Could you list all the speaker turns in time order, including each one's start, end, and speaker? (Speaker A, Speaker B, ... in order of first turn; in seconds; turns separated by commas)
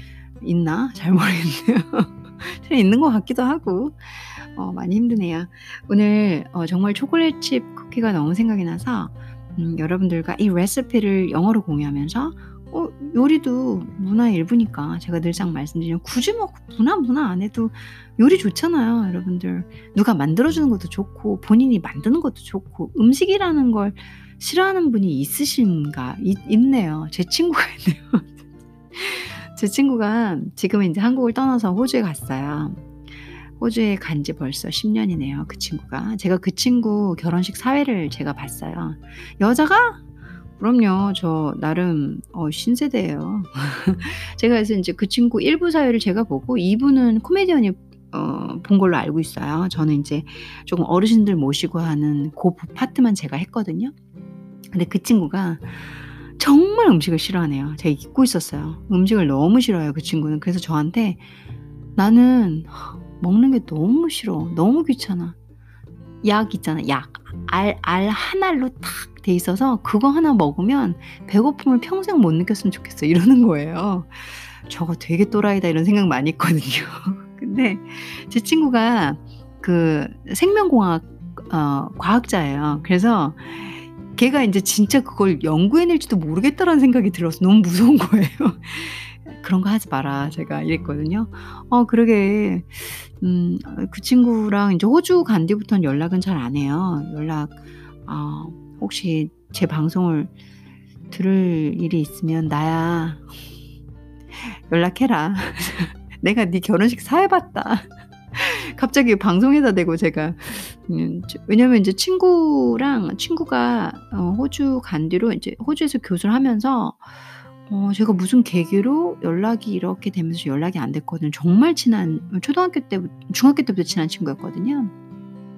Speaker A: 0.4-28.4, Speaker A: 28.9-32.8, Speaker A: 33.6-40.0, Speaker A: 40.6-53.9, Speaker A: 54.7-55.9, Speaker A: 56.4-61.2, Speaker A: 62.0-65.3, Speaker A: 66.2-100.3, Speaker A: 101.1-103.2, Speaker A: 104.4-117.1, Speaker A: 117.7-124.9